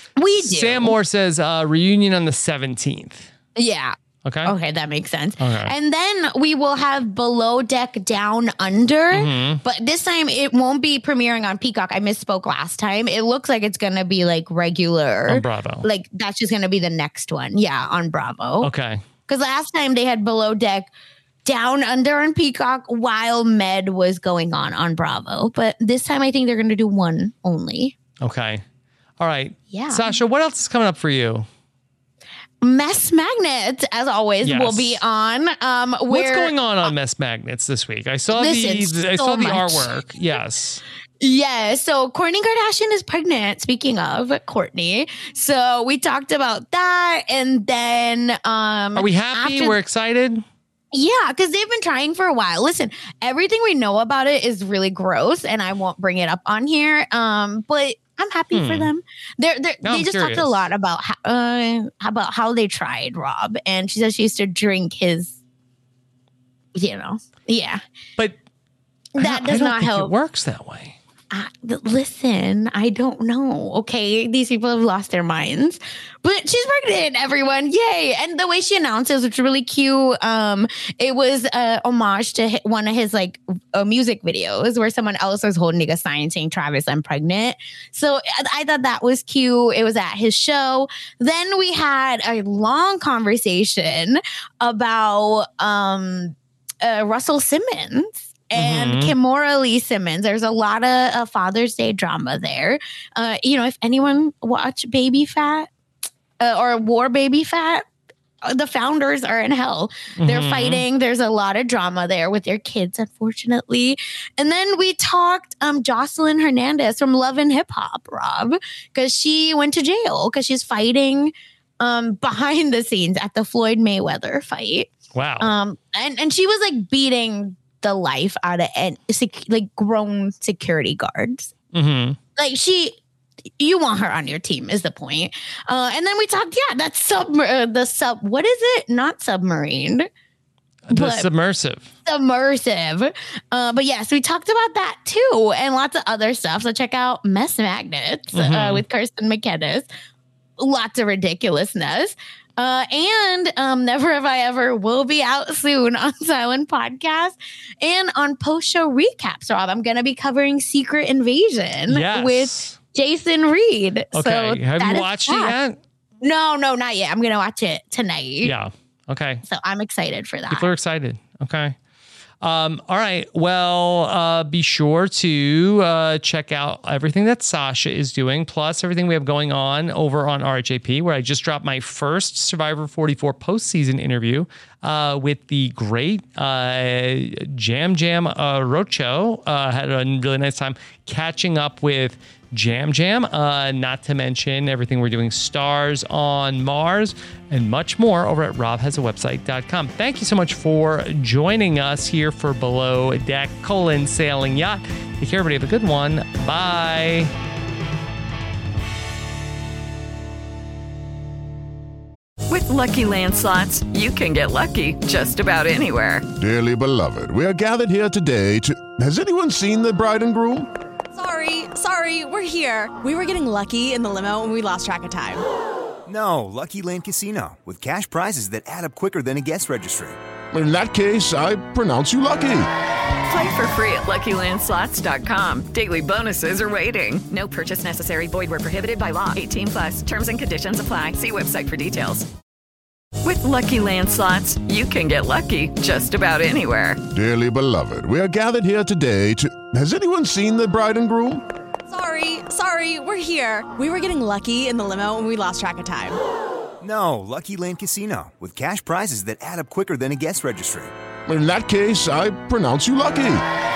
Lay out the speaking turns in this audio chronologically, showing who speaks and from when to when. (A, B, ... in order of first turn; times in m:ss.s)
0:00.2-0:01.0 A
0:00.4-0:03.3 B
0:03.6-0:18.7 A
0:04.2-0:04.5 B
0:05.4-0:05.7 B
0:09.1-0:09.6 B
0:15.3-0:15.9 B
0:18.6-0:19.0 B
0:19.3-0:20.9 A
0:21.4-0:28.0 A
0:28.2-0:28.6 B
0:29.2-0:31.5 B
0:29.7-0:30.2 A
0:32.6-0:36.9 A
0:34.4-0:35.0 B
0:36.1-0:40.8 B
0:38.3-0:40.0 A
0:41.2-0:49.8 A
0:49.0-0:50.4 B
0:50.9-1:05.4 A
0:58.5-0:58.9 B
0:59.8-1:00.6 B
1:06.8-1:07.8 A
1:09.2-1:10.1 A
1:09.2-1:11.0 B
1:11.3-1:45.7 A
1:38.5-1:39.1 B
1:46.4-1:47.9 A
1:48.4-2:11.5 A
1:50.2-1:50.8 B
2:05.1-2:05.5 B
2:11.7-2:12.2 B
2:12.4-2:13.0 A
2:13.6-2:20.1 A
2:20.9-2:21.9 B
2:20.9-2:21.3 A
2:22.0-2:29.9 A
2:28.3-2:28.8 B
2:30.6-2:45.6 A
2:41.9-2:42.7 B
2:44.1-2:45.8 B
2:46.2-2:48.5 A
2:48.4-2:49.4 B
2:49.5-2:50.7 A
2:50.5-2:51.8 B
2:52.4-3:27.3 B
3:32.5-3:36.2 C
3:36.4-3:40.7 D
3:41.2-3:45.4 E
3:46.1-3:50.2 F
3:50.5-3:52.7 D
3:53.3-4:02.3 C
4:03.2-4:07.0 C
4:07.1-4:11.4 D
4:11.9-4:16.2 E
4:16.8-4:20.9 F
4:21.3-4:23.4 D